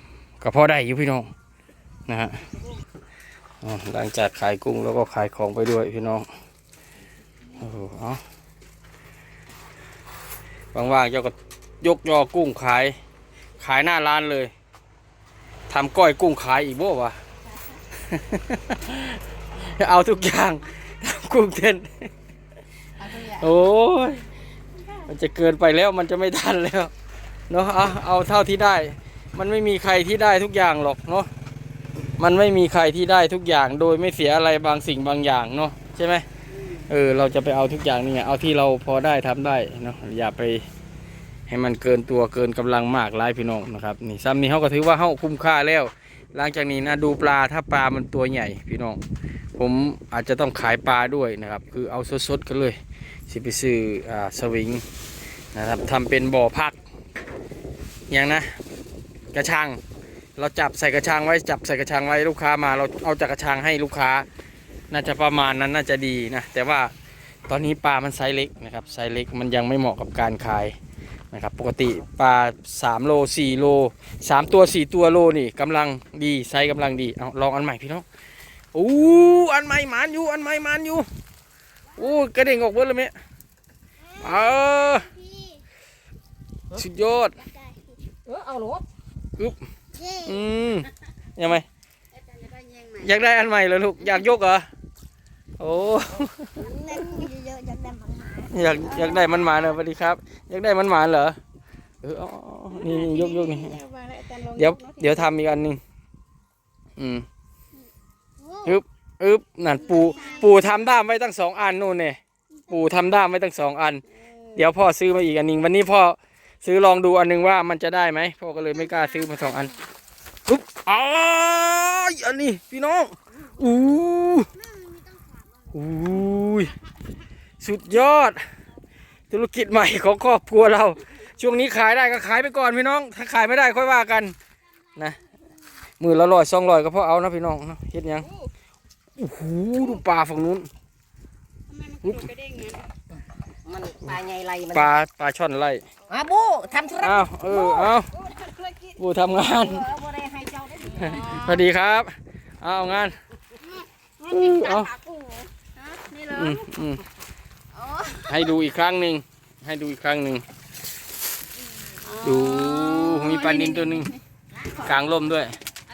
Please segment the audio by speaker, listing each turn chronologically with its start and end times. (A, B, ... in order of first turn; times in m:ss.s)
0:00.4-0:01.3 A
0:02.1-0:02.4 A
0:03.6-0:06.3 A
0:07.6-0:08.2 A
0:10.7-0:12.9 A
0:13.6-0:14.5 A
0:15.7-0:17.2 A
0:18.0-0:22.1 A
0:23.0-0:24.2 A
0:25.0-0:26.9 A
0:27.5-0:31.3 A
0:32.2-0:40.6 A
0:41.5-0:49.0 A
0:49.6-0:52.8 A
0:53.3-0:54.8 A
0:55.5-0:56.8 A
0:58.1-0:58.6 A
0:59.3-0:59.8 A
1:00.4-1:04.2 A
1:04.9-1:06.9 A
1:07.5-1:10.7 A
1:11.3-1:18.0 A
1:18.7-1:21.0 A
1:22.0-1:23.1 A
1:24.2-1:25.1 A
1:25.2-1:25.6 B
1:26.7-1:27.5 A
1:28.2-1:28.8 C
1:29.9-1:30.3 B
1:30.2-1:31.6 A
1:32.3-1:33.0 B
1:32.9-1:34.7 A
1:35.6-1:36.7 A
1:36.7-1:38.5 B
1:38.5-1:41.4 A
1:42.0-1:43.8 A
1:42.8-1:45.3 B
1:44.5-1:45.8 A
1:47.0-1:47.2 A
1:48.6-1:59.8 A
1:54.1-1:54.6 B
2:00.5-2:04.5 A
2:04.6-2:05.4 B
2:05.7-2:06.8 A
2:07.6-2:08.4 A
2:09.3-2:14.3 A
2:16.0-2:18.3 A
2:19.2-2:20.7 A
2:21.7-2:22.9 B
2:22.0-2:22.3 A
2:23.6-2:24.9 C
2:24.7-2:25.8 A
2:26.1-2:27.9 C
2:27.0-2:28.2 A
2:28.2-2:28.9 B
2:29.0-2:29.9 A
2:29.5-2:31.4 C
2:30.9-2:33.2 A
2:33.7-2:36.6 B
2:34.2-2:34.9 A
2:36.3-2:37.0 A
2:37.8-2:38.3 B
2:38.2-2:40.4 A
2:42.0-2:44.2 B
2:42.2-2:44.1 A
2:44.7-2:45.5 A